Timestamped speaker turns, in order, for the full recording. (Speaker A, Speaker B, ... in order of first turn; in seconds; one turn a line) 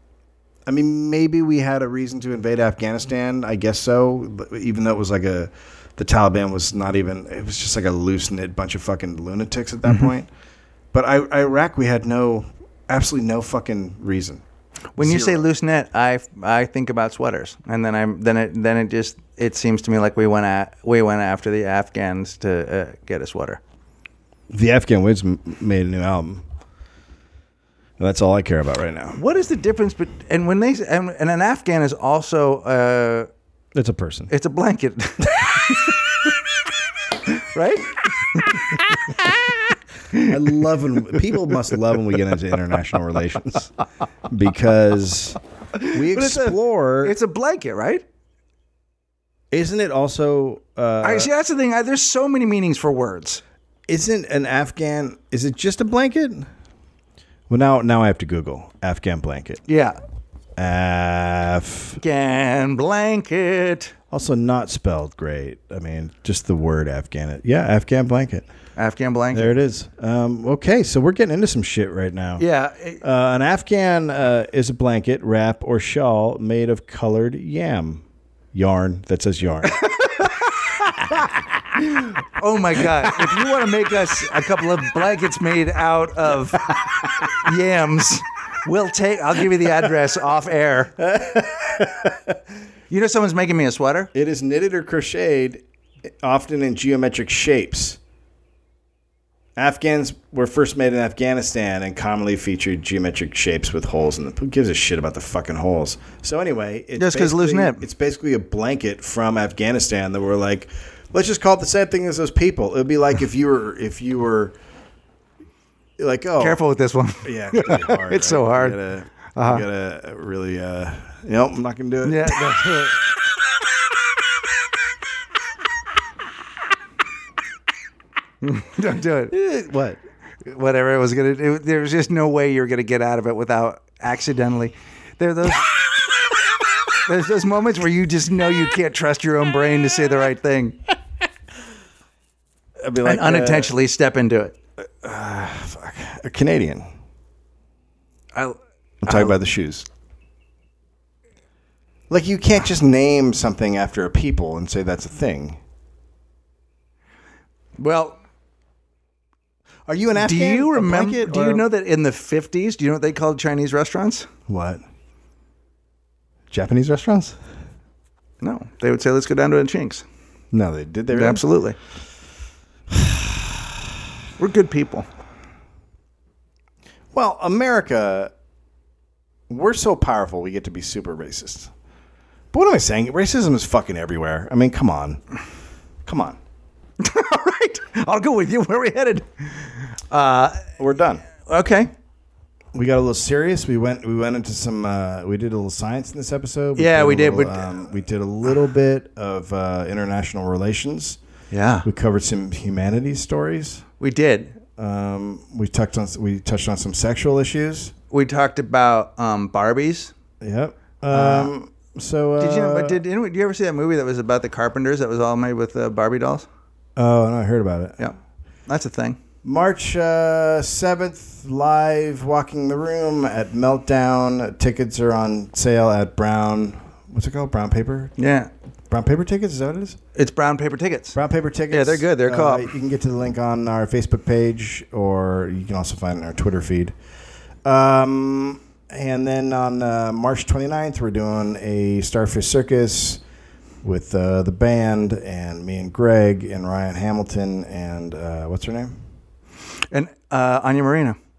Speaker A: 0.7-10.3
Speaker A: 10.9-14.4
Speaker B: 14.9-23.6
Speaker A: 15.0-15.4
Speaker A: 24.5-26.4
Speaker A: 28.0-29.2
Speaker B: 29.1-33.3
Speaker A: 33.7-34.3
Speaker B: 34.3-36.3
Speaker B: 37.2-39.6
Speaker A: 40.1-43.7
Speaker A: 44.3-45.4
Speaker B: 45.7-48.0
Speaker A: 45.9-47.1
Speaker A: 49.5-51.3
Speaker B: 51.0-53.4
Speaker A: 53.9-56.5
Speaker A: 57.5-59.6
Speaker B: 59.7-60.0
Speaker A: 60.6-62.0
Speaker B: 62.0-63.9
Speaker A: 64.1-68.5
Speaker B: 68.8-69.5
Speaker A: 69.3-72.4
Speaker B: 72.4-73.0
Speaker A: 73.0-80.3
Speaker B: 79.7-80.8
Speaker A: 80.8-81.6
Speaker B: 81.9-90.9
Speaker A: 82.8-83.4
Speaker A: 91.0-92.3
Speaker B: 92.9-94.1
Speaker A: 94.1-95.6
Speaker A: 96.2-98.0
Speaker A: 99.5-114.5
Speaker B: 107.0-107.8
Speaker A: 116.0-116.6
Speaker B: 116.4-118.8
Speaker A: 117.2-122.6
Speaker B: 119.3-119.6
Speaker B: 122.0-123.0
Speaker B: 128.4-129.3
Speaker A: 129.3-130.0
Speaker B: 130.4-135.7
Speaker B: 136.9-140.8
Speaker A: 142.8-143.7
Speaker B: 143.0-144.6
Speaker A: 145.0-146.8
Speaker B: 148.3-149.4
Speaker A: 149.0-149.9
Speaker A: 152.1-155.6
Speaker B: 157.8-158.2
Speaker A: 159.9-161.7
Speaker B: 160.1-164.3
Speaker A: 164.5-164.8
Speaker A: 166.5-167.4
Speaker B: 168.4-170.0
Speaker A: 170.5-171.4
Speaker B: 171.1-171.8
Speaker A: 172.9-173.7
Speaker B: 174.4-175.1
Speaker A: 177.1-178.3
Speaker A: 179.5-181.7
Speaker A: 182.5-185.2
Speaker A: 186.0-186.4
Speaker B: 187.0-190.7
Speaker A: 190.8-191.2
Speaker B: 191.4-191.9
Speaker A: 192.7-201.2
Speaker B: 196.8-197.7
Speaker B: 201.5-201.9
Speaker A: 201.8-203.8
Speaker B: 204.0-204.6
Speaker A: 204.8-207.9
Speaker B: 208.1-210.1
Speaker A: 210.4-213.0
Speaker B: 211.1-211.5
Speaker B: 212.4-216.5
Speaker A: 216.9-218.1
Speaker B: 218.0-219.2
Speaker A: 219.4-228.1
Speaker B: 228.2-228.5
Speaker A: 228.9-230.0
Speaker B: 230.1-231.2
Speaker A: 231.1-236.9
Speaker B: 231.7-232.7
Speaker A: 237.6-243.2
Speaker A: 243.8-249.0
Speaker B: 249.9-251.2